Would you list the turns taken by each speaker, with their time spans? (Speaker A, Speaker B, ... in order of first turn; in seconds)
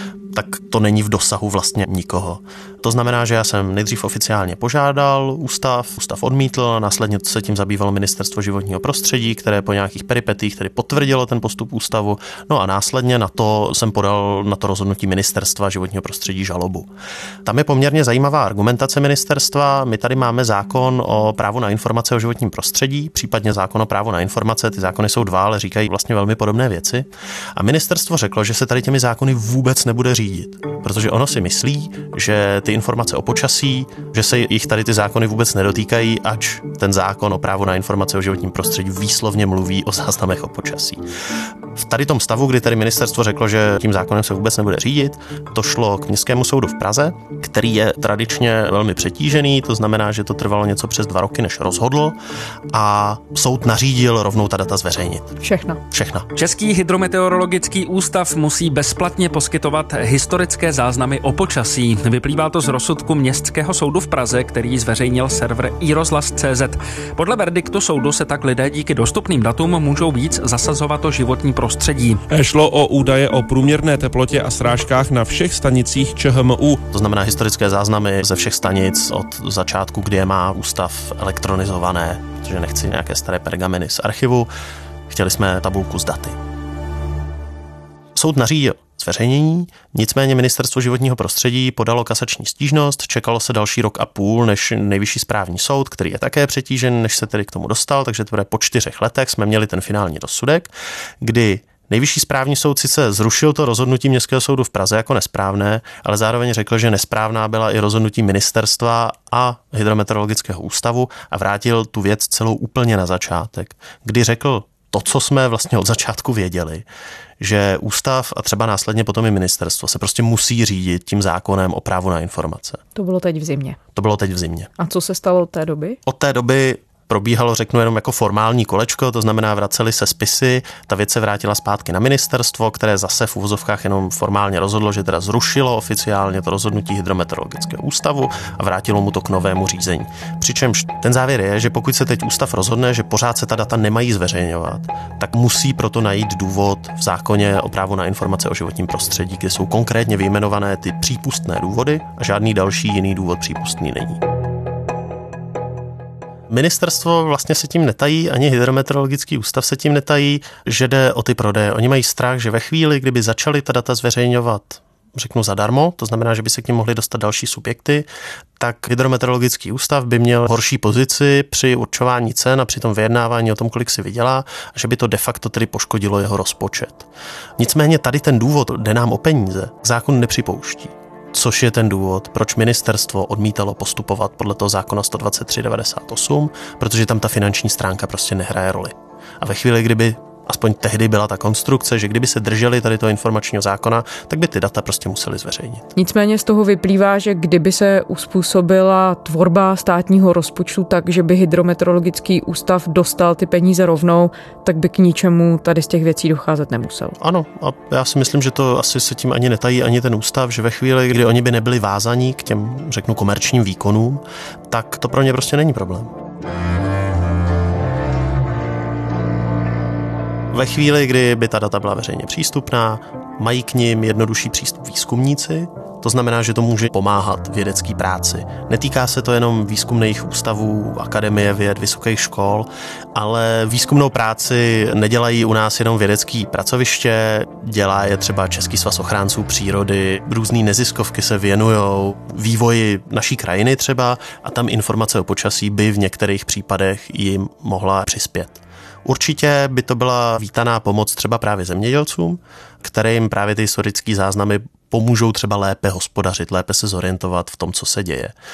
Speaker A: 0.3-16.9, 17.4-41.0, 41.8-52.2, 52.7-55.4, 55.9-56.3, 76.9-84.5, 85.1-86.4, 88.2-116.9, 117.4-122.8, 124.0-124.7, 126.1-154.2, 156.5-195.9, 207.2-216.1, 220.5-258.3
Speaker B: 55.4-55.8, 123.0-123.8, 124.8-126.0, 196.0-207.2
Speaker C: 56.4-72.2
Speaker D: 72.3-76.8